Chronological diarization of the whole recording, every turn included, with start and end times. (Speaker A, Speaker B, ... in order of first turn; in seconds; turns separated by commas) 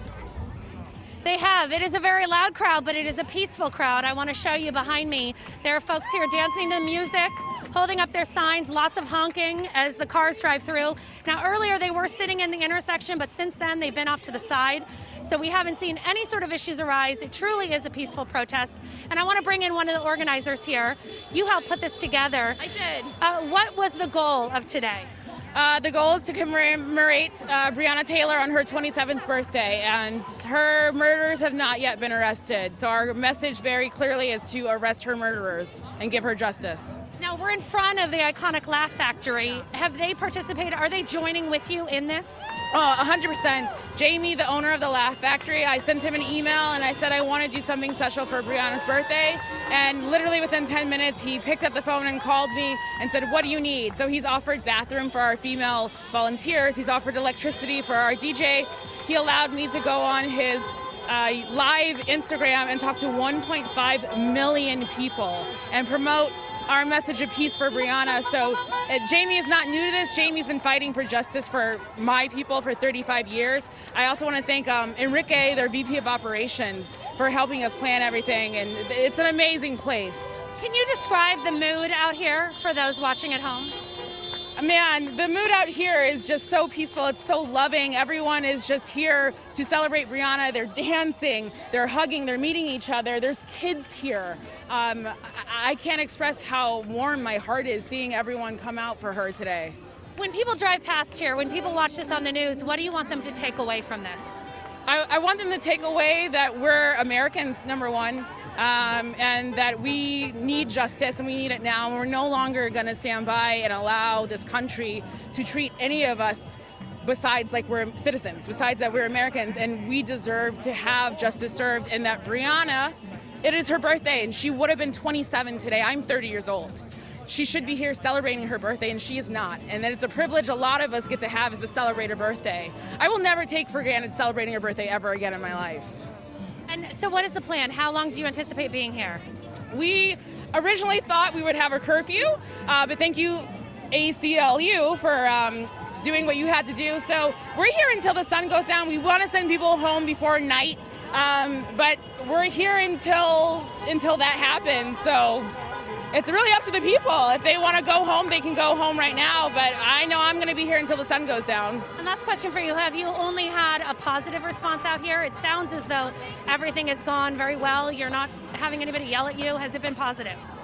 Speaker A: 1.2-22.6, Speaker B: 22.6-23.2, Speaker A: 23.2-25.1, Speaker B: 25.5-37.0, Speaker A: 37.2-42.4, Speaker B: 42.7-80.5, Speaker A: 80.6-83.8, Speaker B: 84.6-99.8, Speaker A: 100.2-104.3, Speaker B: 104.9-136.1, Speaker A: 136.7-139.2, Speaker B: 139.7-155.5, Speaker B: 156.1-161.9, Speaker A: 162.0-170.4